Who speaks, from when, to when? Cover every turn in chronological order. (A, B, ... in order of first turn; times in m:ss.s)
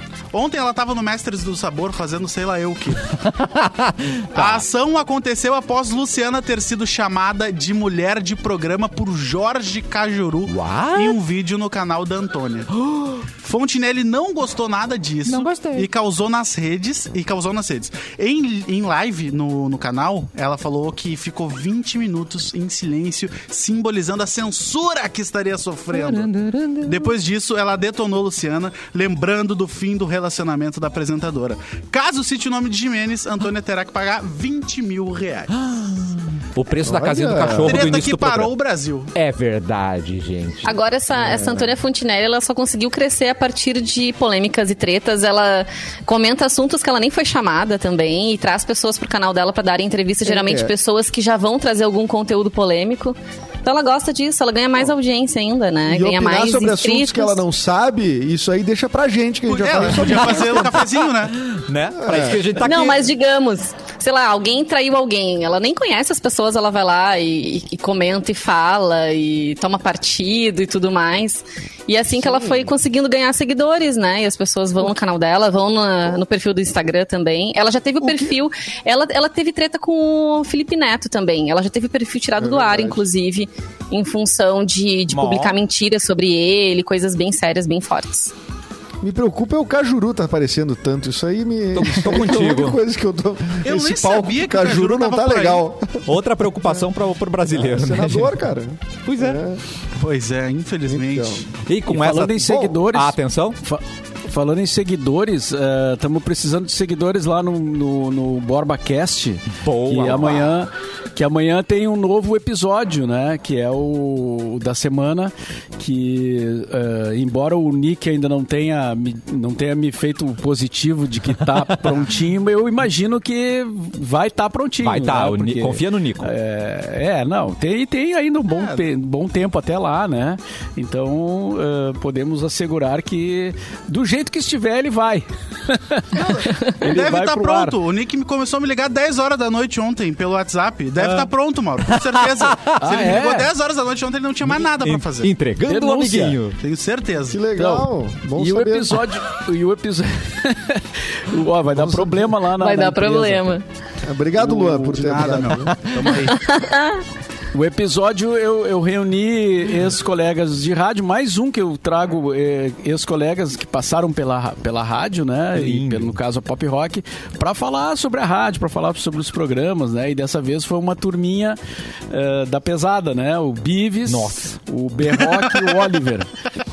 0:00.3-0:03.1 A
0:03.2-0:04.6 B
0:04.3-0:12.7 A
0:10.5-0:11.2 B
0:12.8-0:13.2 B
0:13.4-0:26.3 A
0:15.3-0:15.9 B
0:25.9-0:27.1 B
0:26.8-0:35.5 A
0:35.5-0:38.5 B
0:36.8-0:38.0 C
0:37.5-0:39.1 A
0:39.2-0:40.8 B
0:40.6-0:57.4 D
0:41.2-0:41.7 C
0:50.2-0:50.7 C
0:55.9-1:00.8 C
0:59.5-1:01.4 A
1:00.0-1:03.1 B
1:02.0-1:02.4 C
1:02.5-1:28.3 D
1:12.2-1:12.7 C
1:18.0-1:18.3 C
1:22.4-1:23.0 C
1:25.1-1:25.6 B
1:29.0-1:36.0 C
1:31.7-1:32.8 B
1:33.6-1:35.6 A
1:36.0-1:38.3 B
1:36.6-1:36.9 C
1:37.4-1:39.6 C
1:39.1-1:39.4 B
1:40.0-1:41.5 A
1:40.9-1:41.4 C
1:41.6-1:43.6 B
1:41.9-2:17.8 E
1:49.6-1:50.6 B
2:04.8-2:06.3 B
2:16.4-2:25.3 A
2:21.9-2:22.8 B
2:22.8-2:23.5 E
2:24.5-2:26.6 B
2:25.6-2:26.4 E
2:26.6-2:27.4 A
2:27.3-2:29.0 C
2:27.6-2:33.6 E
2:31.7-2:32.4 C
2:32.5-2:33.6 D
2:34.0-2:35.8 C
2:34.4-2:36.4 A
2:34.5-2:35.2 E
2:36.3-2:37.0 D
2:37.5-2:51.6 E
2:45.5-2:46.1 B
2:52.1-2:56.3 E
2:54.1-2:54.6 B